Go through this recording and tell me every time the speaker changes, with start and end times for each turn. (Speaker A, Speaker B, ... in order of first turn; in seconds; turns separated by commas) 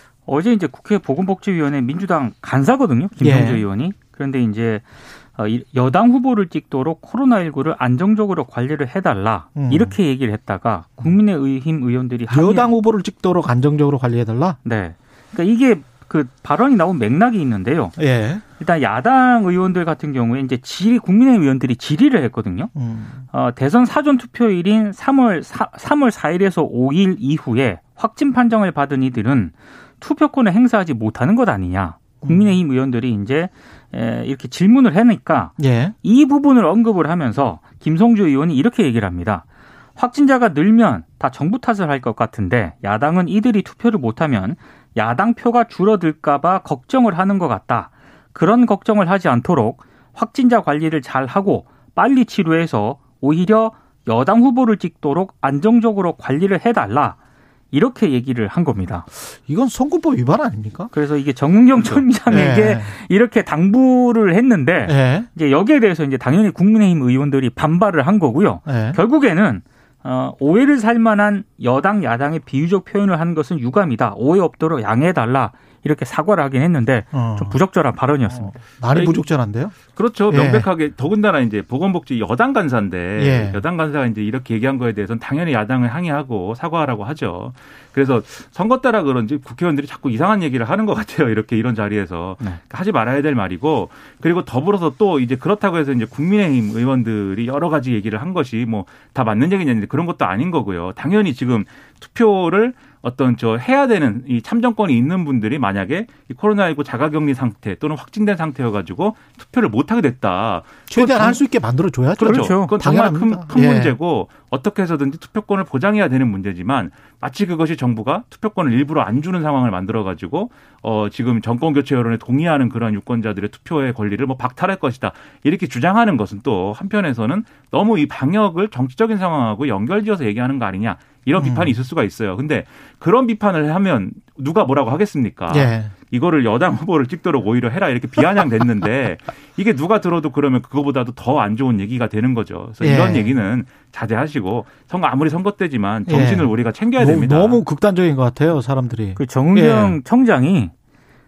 Speaker A: 0.3-4.8, Speaker B: 3.2-3.6, Speaker A: 5.3-12.7, Speaker B: 9.5-9.9, Speaker B: 12.3-14.6, Speaker A: 14.6-17.9, Speaker B: 18.0-18.4, Speaker A: 18.6-22.7, Speaker B: 22.7-23.2, Speaker A: 23.3-39.4, Speaker B: 32.2-32.6, Speaker B: 35.6-35.9, Speaker A: 40.0-57.2, Speaker A: 57.7-59.0, Speaker B: 59.3-60.9, Speaker A: 60.9-78.5, Speaker B: 62.3-62.9, Speaker B: 64.8-65.3, Speaker B: 68.7-69.0, Speaker B: 77.1-77.6, Speaker B: 78.3-79.8, Speaker C: 78.9-79.2, Speaker C: 79.9-111.4, Speaker B: 80.3-80.7, Speaker B: 83.2-83.6, Speaker B: 110.9-114.0, Speaker C: 112.2-147.6, Speaker A: 112.2-112.7, Speaker B: 131.4-131.7, Speaker B: 135.5-135.9, Speaker B: 142.8-143.3, Speaker B: 146.1-150.0, Speaker A: 149.2-150.7